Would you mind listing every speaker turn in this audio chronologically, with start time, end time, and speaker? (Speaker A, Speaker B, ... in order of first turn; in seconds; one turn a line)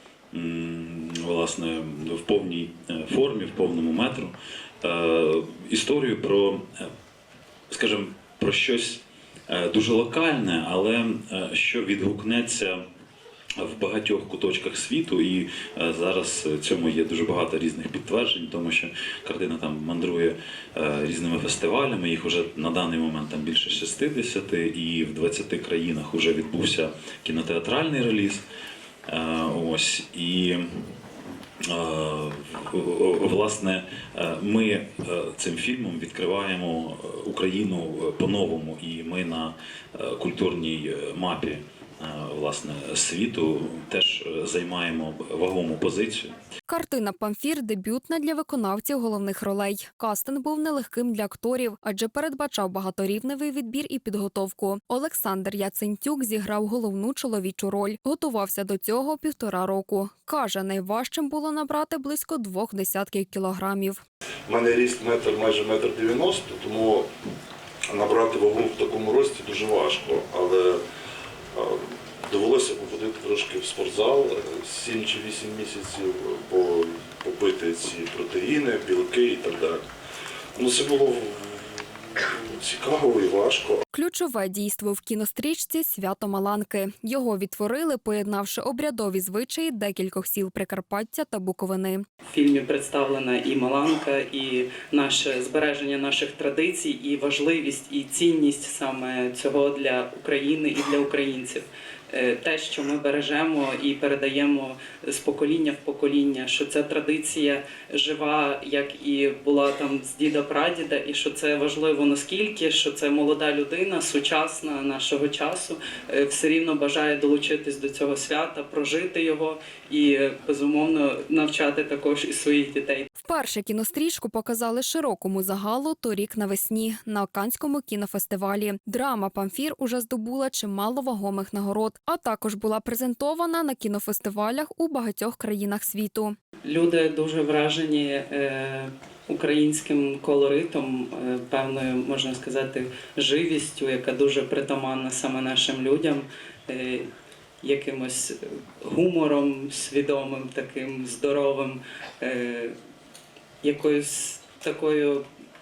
Speaker A: 0.3-6.9
Speaker A: 7.7-12.8
Speaker A: 13.6-28.4
Speaker A: 29.1-31.0
Speaker A: 31.7-46.3
Speaker B: 46.7-64.0
Speaker C: 64.5-67.1
Speaker C: 67.9-70.8
Speaker C: 71.5-79.8
Speaker C: 80.5-83.8
Speaker B: 83.9-92.0
Speaker D: 92.3-123.1
Speaker B: 123.2-136.3
Speaker D: 136.6-147.1
Speaker D: 147.6-152.7
Speaker D: 153.6-155.2